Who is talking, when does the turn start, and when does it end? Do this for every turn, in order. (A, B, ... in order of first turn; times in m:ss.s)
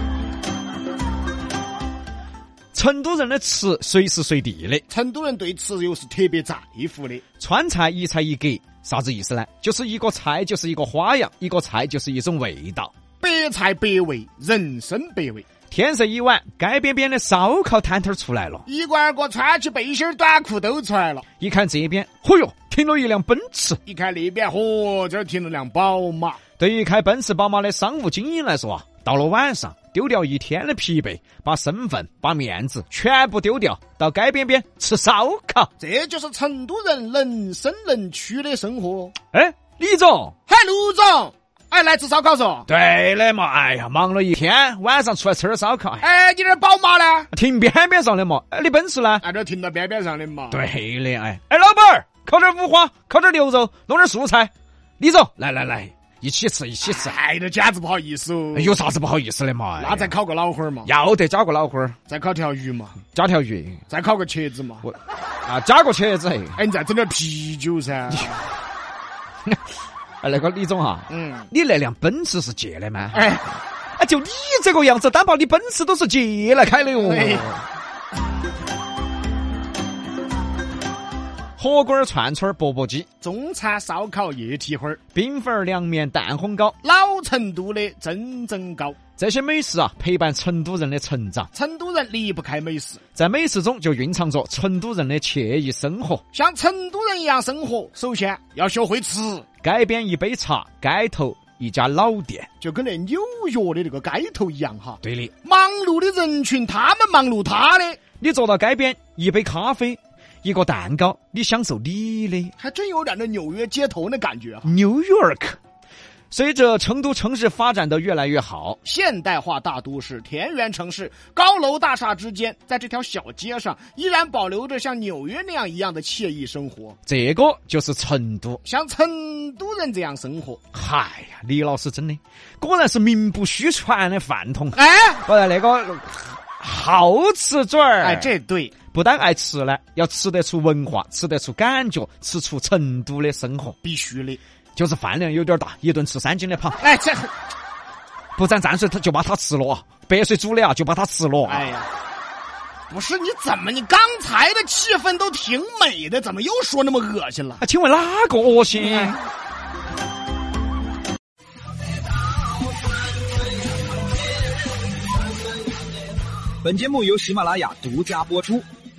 0:02.7-0:04.8 A
0:04.9-0:07.2 B
0:07.4-0:12.9 A
0:13.2-0:15.4 B
0:15.7-0:18.6 A
0:18.6-0:21.2 B
0:21.4-0:23.8 A
0:23.8-0:26.4 B
0:26.6-0:35.7 A
0:35.8-0:39.1 B
0:39.3-0:40.3 A
0:40.5-0:42.7 B
0:42.7-0:46.0 A
0:46.0-0:47.3 B
0:47.3-0:49.2 A
0:49.2-0:50.6 B
0:50.5-0:57.1 A
0:56.8-0:58.7 B
0:58.5-1:00.1 A
0:59.8-1:00.9 B
1:00.8-1:02.0 A
1:02.1-1:03.0 B
1:03.1-1:03.8 A
1:03.9-1:04.9 B
1:04.8-1:06.6 A
1:06.6-1:08.4 B
1:10.2-1:13.4 A
1:11.1-1:11.5 B
1:13.1-1:13.4 B
1:14.0-1:17.6 A
1:17.0-1:17.5 B
1:21.6-1:23.0 A
1:23.2-1:25.0 B
1:25.1-1:26.7 A
1:26.8-1:29.0 B
1:29.2-1:31.5 A
1:31.5-1:33.0 B
1:33.1-1:36.2 A
1:36.3-1:39.4 B
1:39.6-1:42.5 A
1:42.6-1:48.0 B
1:45.0-1:45.3 A
1:48.2-1:52.5 A
1:52.6-1:54.7 B
1:54.6-1:55.6 A
1:56.3-1:58.8 A
1:58.8-2:07.0 B
2:07.1-2:08.6 A
2:08.6-2:10.6 B
2:10.7-2:18.3 A
2:14.7-2:15.2 B
2:18.0-2:18.7 B
2:18.9-2:23.8 A
2:23.8-2:24.4 B
2:24.8-2:26.8 A
2:26.8-2:27.3 B
2:28.4-2:31.7 A
2:31.4-2:31.9 B
2:32.9-2:37.6 B
2:37.6-2:39.2 A
2:38.8-2:39.1 B
2:46.6-2:48.6 C